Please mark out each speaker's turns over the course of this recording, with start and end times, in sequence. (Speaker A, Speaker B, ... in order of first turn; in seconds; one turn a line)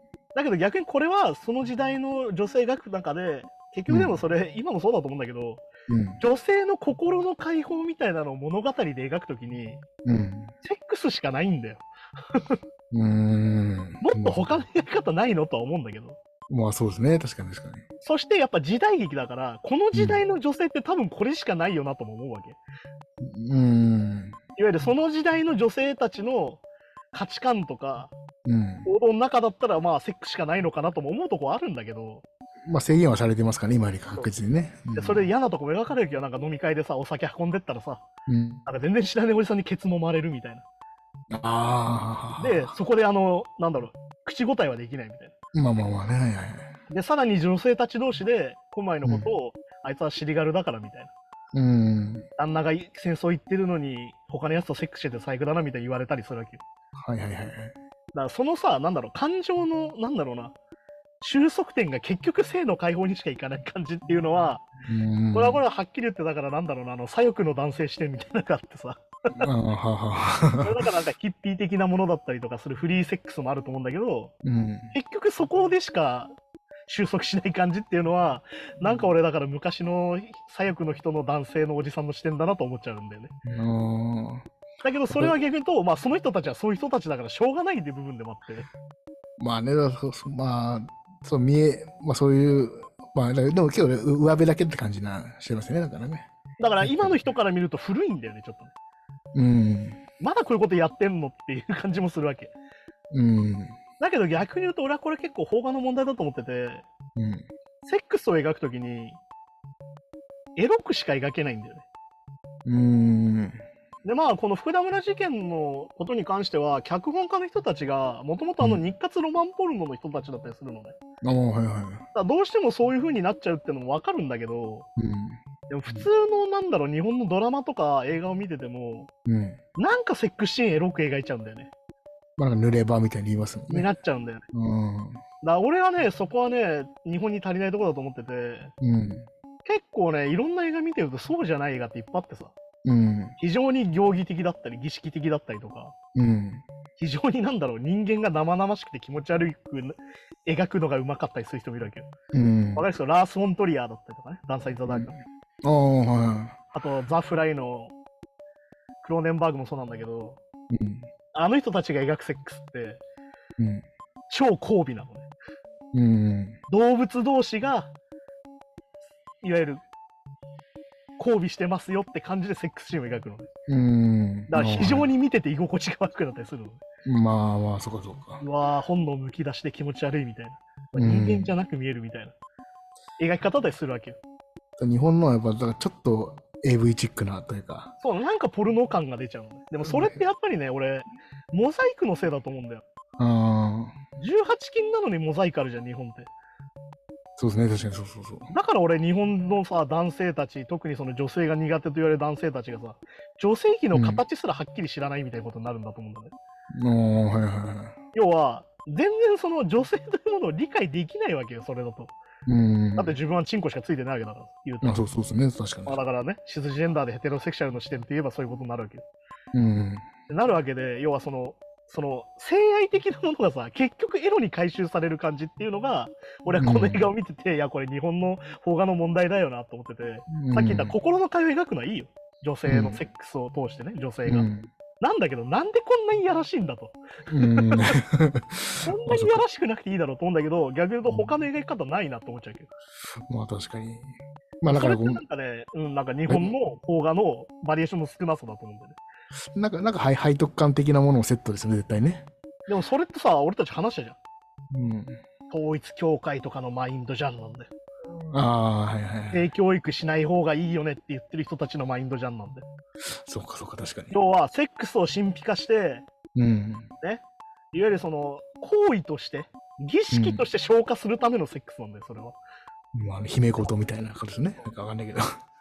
Speaker A: 0.3-5.7
Speaker B: 3.9-4.2
Speaker B: 5.9-6.2
Speaker A: 6.2-9.8
Speaker B: 10.0-10.5
Speaker A: 10.6-12.6
Speaker B: 12.9-14.6
Speaker A: 14.0-16.2
Speaker B: 16.5-17.8
Speaker A: 18.0-22.6
Speaker B: 19.9-20.2
Speaker B: 23.2-24.4
Speaker A: 24.6-28.1
Speaker B: 28.4-28.9
Speaker A: 28.8-32.2
Speaker B: 32.6-35.3
Speaker A: 34.9-38.0
Speaker B: 38.3-38.6
Speaker A: 38.6-40.6
Speaker B: 41.3-42.7
Speaker A: 42.4-45.3
Speaker B: 45.5-46.8
Speaker A: 46.9-51.1
Speaker B: 51.5-52.3
Speaker A: 52.4-56.6
Speaker B: 57.0-57.7
Speaker A: 58.1-60.5
Speaker A: 61.2-64.7
Speaker B: 64.8-65.6
Speaker A: 65.3-69.3
Speaker B: 69.3-70.8
Speaker A: 70.6-74.3
Speaker B: 74.4-74.9
Speaker A: 74.9-76.3
Speaker A: 76.9-83.3
Speaker B: 83.4-84.5
Speaker A: 84.8-88.7
Speaker B: 85.1-85.3
Speaker B: 89.4-96.3
Speaker A: 96.6-98.7
Speaker B: 96.8-97.2
Speaker B: 99.3-100.0
Speaker A: 100.2-102.5
Speaker B: 103.1-103.8
Speaker A: 104.0-106.8
Speaker B: 107.2-107.4
Speaker A: 107.8-109.2
Speaker A: 110.5-111.8
Speaker B: 112.6-113.6
Speaker A: 114.0-121.0
Speaker B: 121.2-122.0
Speaker A: 122.1-124.9
Speaker B: 125.0-126.1
Speaker A: 125.7-129.1
Speaker B: 129.2-129.6
Speaker A: 129.8-131.7
Speaker B: 132.4-133.9
Speaker A: 133.7-134.4
Speaker B: 134.5-135.2
Speaker A: 135.4-138.7
Speaker B: 138.8-139.3
Speaker A: 139.6-142.5
Speaker B: 142.8-143.3
Speaker A: 143.4-145.9
Speaker B: 146.1-146.6
Speaker A: 147.0-152.1
Speaker B: 152.3-152.8
Speaker A: 152.7-155.2
Speaker B: 154.9-156.6
Speaker A: 156.7-157.9
Speaker A: 159.0-160.4
Speaker B: 160.7-161.1
Speaker A: 161.3-163.0
Speaker B: 163.6-163.8
Speaker A: 164.3-165.3
Speaker B: 165.9-166.6
Speaker A: 166.7-167.9
Speaker A: 169.4-169.8
Speaker A: 171.2-173.5
Speaker B: 173.7-175.1
Speaker A: 174.5-176.8
Speaker B: 177.0-178.4
Speaker A: 178.4-182.3
Speaker B: 180.9-181.5
Speaker A: 183.2-184.2
Speaker B: 184.8-187.9
Speaker A: 188.0-192.8
Speaker B: 189.8-190.2
Speaker B: 193.2-193.9
Speaker A: 194.2-196.3
Speaker B: 197.4-198.5
Speaker A: 198.5-206.3
Speaker B: 203.9-204.2
Speaker B: 206.7-207.9
Speaker A: 208.1-212.2
Speaker B: 212.4-213.2
Speaker A: 212.9-215.0
Speaker B: 214.8-216.0
Speaker A: 215.8-219.0
Speaker B: 219.5-220.1
Speaker A: 220.3-234.5
Speaker B: 226.6-227.1
Speaker B: 230.3-230.9
Speaker B: 232.7-233.0
Speaker B: 234.3-234.7
Speaker A: 235.0-237.9
Speaker B: 237.3-239.4
Speaker A: 238.8-242.7
Speaker B: 243.3-245.2
Speaker A: 244.7-249.0
Speaker B: 246.3-246.5
Speaker B: 249.5-252.3
Speaker A: 252.7-254.2
Speaker B: 254.7-255.2
Speaker A: 255.5-257.7
Speaker B: 258.3-259.5
Speaker A: 259.3-262.6
Speaker B: 263.2-264.2
Speaker A: 264.1-266.0
Speaker B: 266.3-266.9
Speaker A: 267.7-272.4
Speaker B: 270.1-270.4
Speaker B: 272.9-275.3